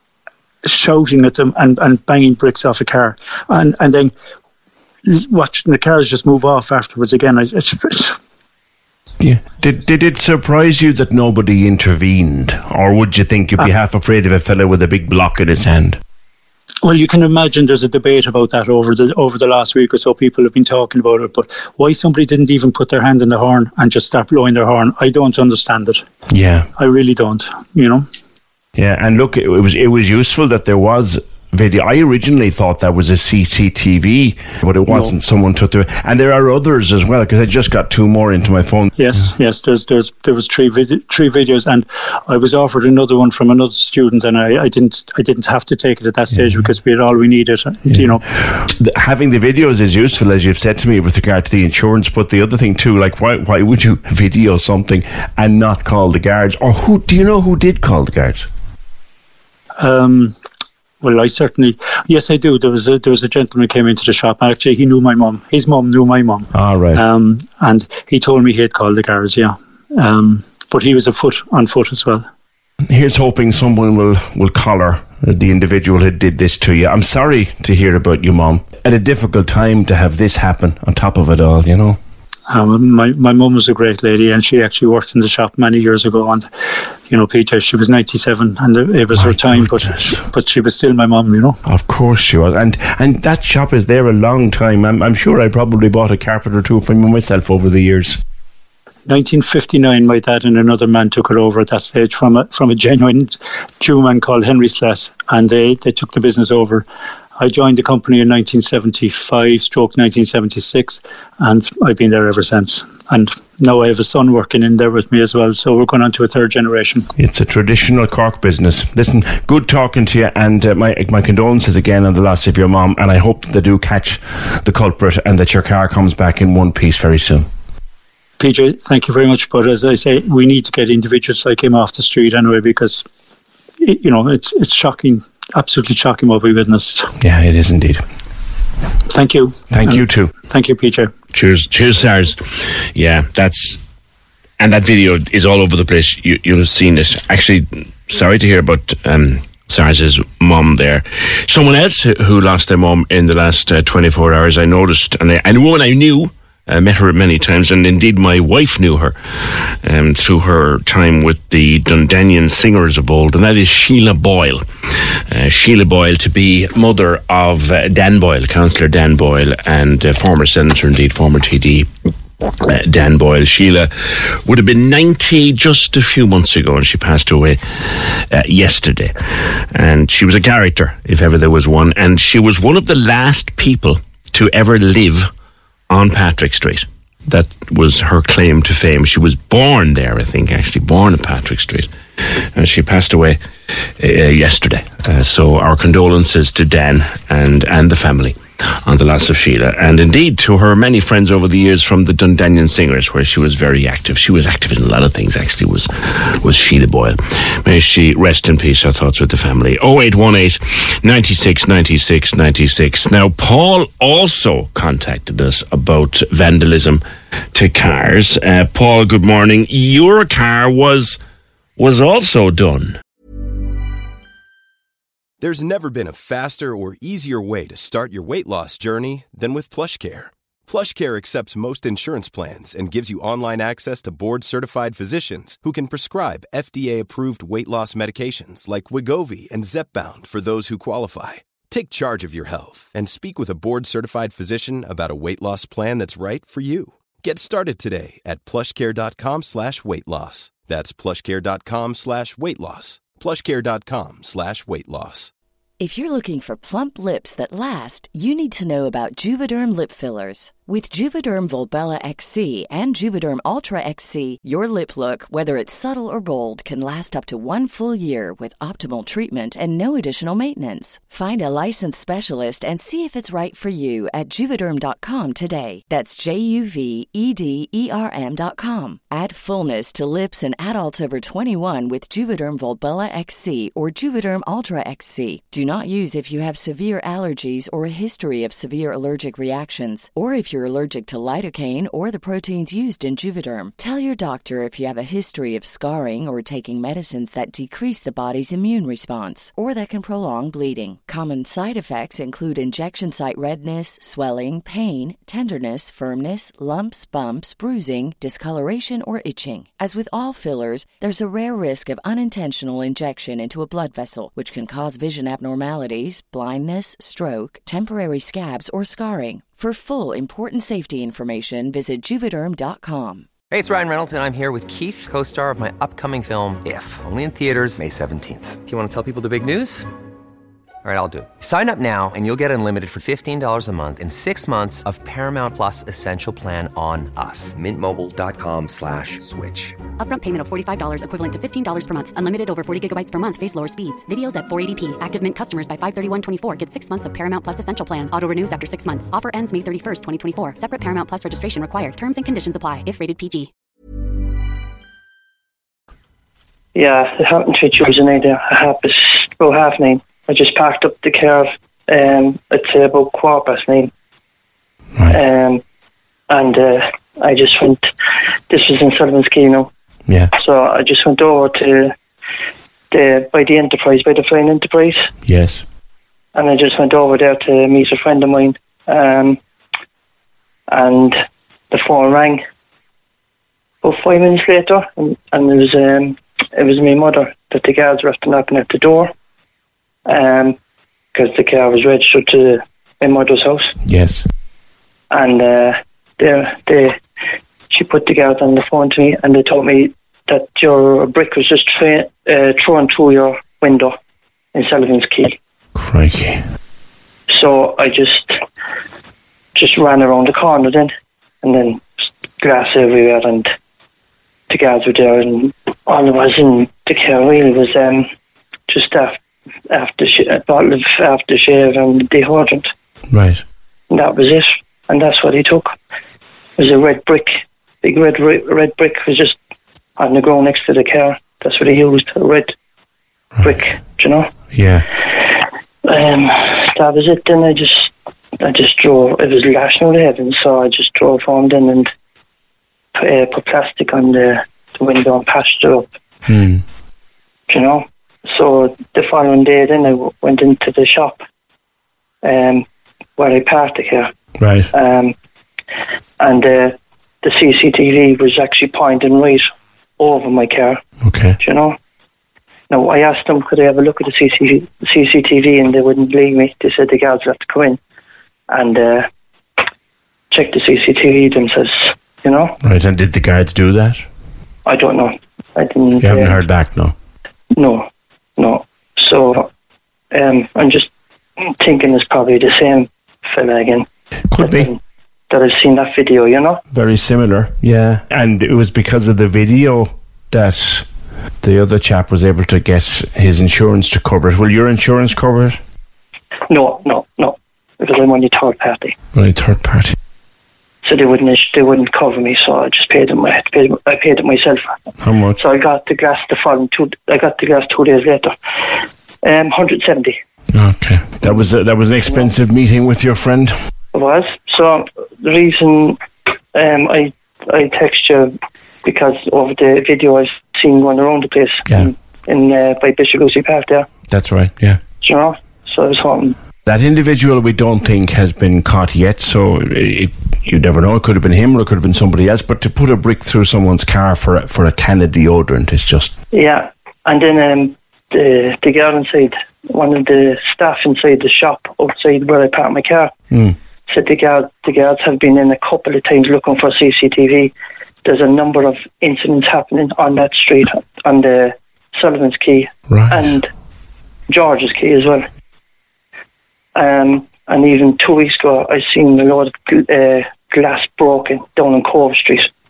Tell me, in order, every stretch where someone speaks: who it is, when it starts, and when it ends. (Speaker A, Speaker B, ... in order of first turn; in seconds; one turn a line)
Speaker A: 0.6-4.1
Speaker A: 5.0-8.2
Speaker B: 9.2-16.0
Speaker A: 16.8-26.0
Speaker B: 26.3-26.7
Speaker A: 26.8-28.0
Speaker B: 28.8-39.0
Speaker A: 34.9-35.1
Speaker A: 39.0-48.2
Speaker B: 46.3-46.6
Speaker B: 47.9-58.5
Speaker A: 59.8-60.3
Speaker A: 61.0-72.2
Speaker B: 66.5-67.0
Speaker B: 72.9-82.0
Speaker A: 82.5-86.5
Speaker A: 87.1-91.6
Speaker B: 89.1-90.2
Speaker B: 91.6-98.2
Speaker A: 99.1-106.8
Speaker A: 107.4-117.0
Speaker B: 117.2-127.5
Speaker A: 128.4-133.1
Speaker A: 133.8-137.1
Speaker B: 137.2-138.0
Speaker A: 139.1-141.1
Speaker B: 139.7-140.3
Speaker C: 141.3-142.3
Speaker B: 141.5-142.3
Speaker C: 142.9-143.8
Speaker C: 144.6-156.1
Speaker B: 144.8-146.4
Speaker B: 148.5-151.0
Speaker B: 152.0-159.1
Speaker C: 156.7-159.1
Speaker C: 159.8-164.6
Speaker B: 159.9-164.6
Speaker C: 165.3-171.8
Speaker B: 165.4-166.6
Speaker B: 167.4-167.7
Speaker B: 168.3-168.7
Speaker B: 171.2-171.8
Speaker C: 172.7-173.9
Speaker C: 174.4-177.6
Speaker B: 174.6-174.9
Speaker B: 175.9-177.5
Speaker C: 178.2-179.1
Speaker C: 179.7-185.3
Speaker B: 180.2-181.8
Speaker B: 182.3-183.9
Speaker B: 184.9-185.2
Speaker C: 185.9-191.8
Speaker B: 187.3-187.8
Speaker B: 188.4-189.4
Speaker B: 190.0-191.0
Speaker C: 192.5-193.3
Speaker B: 192.9-193.3
Speaker C: 194.0-217.0
Speaker B: 194.6-195.2
Speaker B: 200.7-202.0
Speaker B: 208.7-209.3
Speaker C: 217.5-221.2
Speaker B: 218.8-219.7
Speaker C: 221.8-223.0
Speaker D: 225.4-255.3
Speaker E: 255.8-323.3
Speaker F: 323.5-329.9
Speaker F: 330.8-339.7
Speaker G: 340.0-353.5
Speaker H: 356.7-363.9
Speaker H: 365.1-365.6
Speaker H: 366.3-367.8
Speaker H: 368.5-369.7
Speaker H: 370.3-371.9
Speaker H: 372.9-375.1
Speaker B: 375.2-375.6
Speaker H: 376.3-379.4
Speaker H: 380.7-381.2
Speaker H: 381.7-382.4
Speaker H: 383.8-389.1
Speaker H: 390.1-390.6
Speaker H: 391.1-393.7
Speaker B: 393.8-394.2
Speaker H: 395.1-397.0
Speaker H: 397.7-403.9
Speaker H: 404.5-405.4
Speaker B: 405.8-406.4
Speaker H: 407.3-408.4
Speaker H: 409.5-410.9
Speaker H: 411.4-411.8
Speaker H: 412.4-413.5
Speaker H: 414.5-418.0
Speaker H: 418.7-422.7
Speaker B: 423.1-423.4
Speaker H: 423.9-425.7
Speaker H: 426.6-429.4
Speaker H: 430.0-432.5
Speaker H: 433.4-434.3
Speaker B: 434.5-434.9
Speaker H: 435.8-441.9
Speaker H: 442.9-445.9
Speaker B: 446.3-446.6
Speaker H: 447.5-451.2
Speaker H: 452.2-452.6
Speaker H: 453.2-454.1
Speaker B: 454.4-454.7
Speaker H: 454.7-455.1
Speaker H: 456.2-459.5
Speaker H: 460.0-460.8
Speaker B: 461.0-461.4
Speaker H: 461.4-461.8
Speaker H: 462.7-467.8
Speaker H: 468.5-469.1
Speaker H: 470.3-472.5
Speaker B: 472.6-474.1
Speaker H: 474.6-476.4
Speaker B: 476.0-476.9
Speaker H: 477.5-477.9
Speaker H: 478.4-479.5
Speaker H: 480.1-483.9
Speaker B: 484.3-484.7
Speaker H: 484.4-484.8
Speaker H: 485.3-486.6
Speaker B: 486.7-490.9
Speaker B: 491.4-495.6
Speaker H: 496.5-498.9
Speaker B: 499.1-499.9
Speaker H: 500.8-504.7
Speaker B: 505.0-505.4
Speaker H: 505.4-508.3
Speaker H: 509.2-510.1
Speaker B: 510.5-513.5
Speaker H: 512.0-512.3
Speaker H: 513.9-516.0
Speaker H: 516.5-518.3
Speaker H: 518.8-523.9
Speaker B: 521.7-521.9
Speaker B: 524.1-524.8
Speaker H: 525.0-526.3
Speaker B: 526.6-536.1
Speaker H: 536.3-543.1
Speaker H: 543.9-547.5
Speaker H: 548.0-553.5
Speaker B: 552.9-553.3
Speaker H: 554.3-555.2
Speaker H: 556.7-562.5